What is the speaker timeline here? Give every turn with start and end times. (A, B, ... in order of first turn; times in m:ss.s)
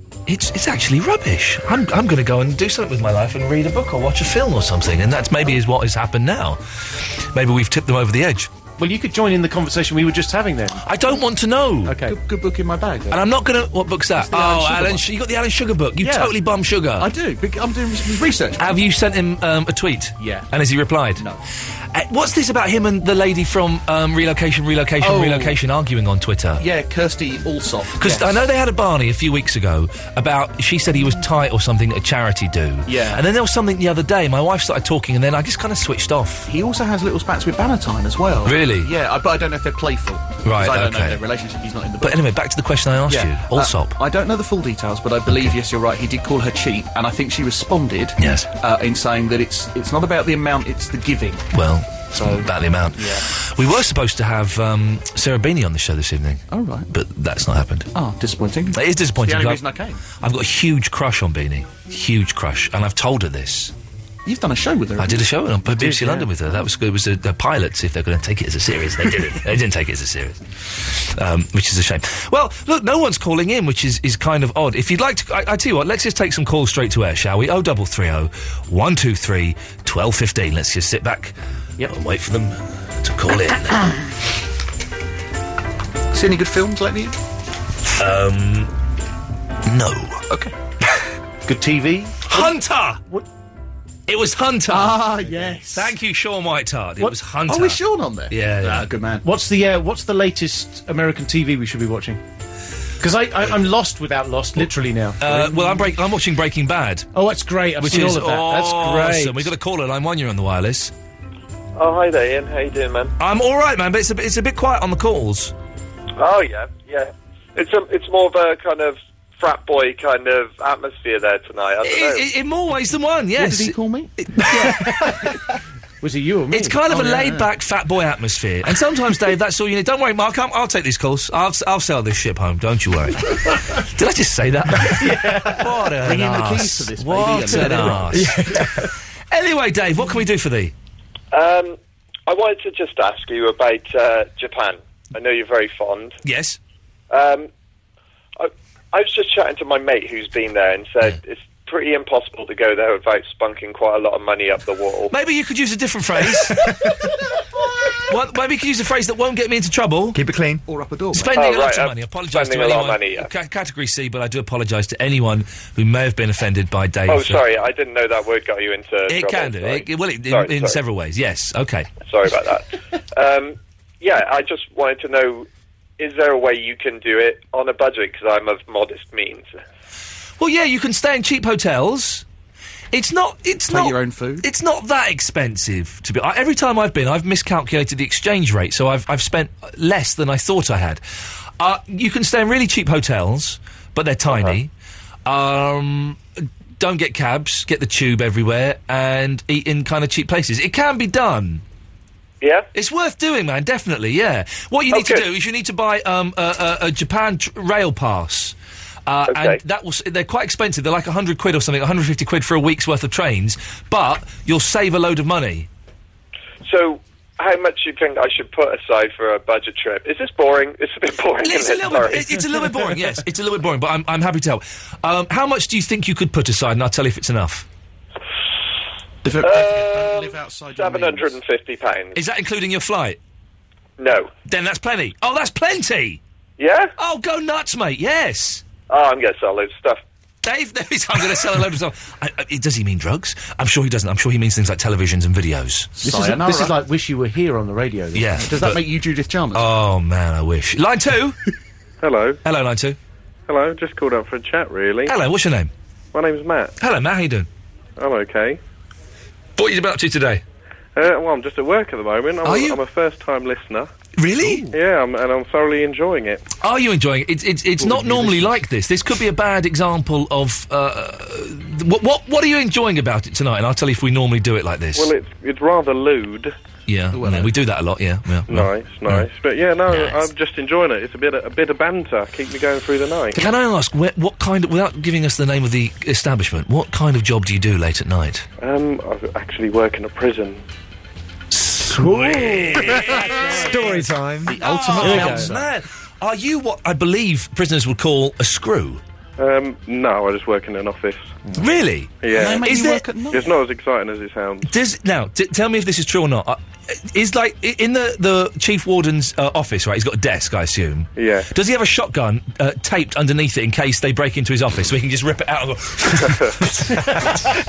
0:00.3-0:08.5 A
0:08.8-0:10.9 B
0:10.8-0:12.0 A
0:11.8-0:12.2 B
0:12.1-0:13.2 C
0:13.1-0:17.1 A
0:14.2-0:15.0 C
0:16.0-0:16.4 C
0:17.0-0:18.8 C
0:18.6-0:21.2 A
0:20.2-0:20.5 C
0:21.9-0:26.6 A
0:25.0-0:25.6 C
0:26.6-0:28.4 C
0:28.0-0:36.5 A
0:32.9-0:33.2 C
0:36.5-0:42.2 C
0:38.4-0:38.9 A
0:40.4-0:41.2 A
0:42.0-0:44.0 A
0:43.1-0:51.5 C
0:48.2-0:48.5 A
0:51.5-0:57.9 A
0:52.1-0:53.3 C
0:56.5-0:56.9 C
0:57.9-1:00.0 C
0:58.7-0:59.6 A
1:00.1-1:03.7 A
1:04.3-1:05.3 C
1:05.0-1:21.3 A
1:05.8-1:06.3 B
1:21.9-1:23.9 A
1:26.1-1:27.2 C
1:28.0-1:28.7 A
1:29.7-1:30.2 A
1:31.4-1:32.5 B
1:32.3-1:33.0 A
1:34.1-1:38.9 A
1:34.7-1:35.9 C
1:37.5-1:39.3 C
1:39.2-1:42.2 B
1:43.0-1:45.8 B
1:45.2-1:47.1 A
1:47.1-1:49.5 B
1:47.8-1:50.9 A
1:51.8-1:53.1 D
1:53.2-1:55.5 A
1:56.2-2:02.2 D
2:01.8-2:05.1 A
2:03.4-2:04.1 C
2:04.5-2:05.3 B
2:06.0-2:07.3 B
2:06.5-2:18.8 A
2:15.0-2:15.6 B
2:15.9-2:18.3 C
2:18.1-2:18.8 E
2:19.3-2:20.7 A
2:21.3-2:26.2 D
2:26.2-2:26.6 A
2:27.1-2:27.5 D
2:28.4-2:35.1 D
2:35.1-2:36.6 A
2:38.1-2:40.2 A
2:40.1-2:40.6 E
2:40.7-2:41.4 C
2:41.1-2:47.5 A
2:41.4-2:43.3 D
2:47.1-2:50.8 D
2:49.1-2:51.9 A
2:52.0-2:55.5 D
2:56.0-2:59.6 D
3:00.4-3:02.2 A
3:02.9-3:11.0 A
3:03.7-3:04.5 C
3:11.6-3:14.7 A
3:14.3-3:14.6 D
3:15.2-3:21.6 A
3:22.4-3:22.7 D
3:22.7-3:28.6 A
3:24.9-3:25.2 D
3:29.1-3:35.7 A
3:29.3-3:29.6 D
3:36.6-3:42.2 D
3:41.4-3:47.6 A
3:49.2-3:51.4 C
3:49.4-3:52.2 D
3:52.1-3:53.2 A
3:54.0-3:54.3 D
3:54.5-3:56.2 A
3:56.6-3:56.9 D
3:57.0-3:58.6 A
3:58.9-4:00.0 D
4:00.4-4:05.9 A
4:06.0-4:06.8 C
4:06.0-4:08.4 B
4:08.1-4:08.8 A
4:08.4-4:09.7 C
4:09.5-4:11.4 A
4:12.0-4:12.4 F
4:12.4-4:13.0 A
4:13.5-4:15.1 F
4:15.0-4:15.7 A
4:16.1-4:16.8 F
4:16.8-4:17.5 A
4:18.0-4:18.6 F
4:19.6-4:20.4 A
4:21.0-4:23.9 F
4:22.4-4:22.8 A
4:24.2-4:24.7 A
4:24.7-4:26.5 F
4:26.6-4:35.1 A
4:27.8-4:28.6 C
4:35.0-4:36.5 F
4:36.9-4:39.3 A
4:37.1-4:37.5 C
4:38.5-4:43.4 F
4:39.9-4:40.3 A
4:43.3-4:48.5 A
4:48.6-4:50.6 F
4:51.5-4:54.0 A
4:52.3-4:52.9 E
4:53.3-4:53.9 B
4:53.5-4:54.5 E
4:54.5-4:55.7 C
4:54.6-4:59.0 A
4:55.0-4:55.5 B
4:59.4-5:01.3 F
5:01.6-5:03.0 A
5:02.3-5:03.6 C
5:03.3-5:04.7 F
5:04.6-5:17.3 A
5:11.2-5:11.5 F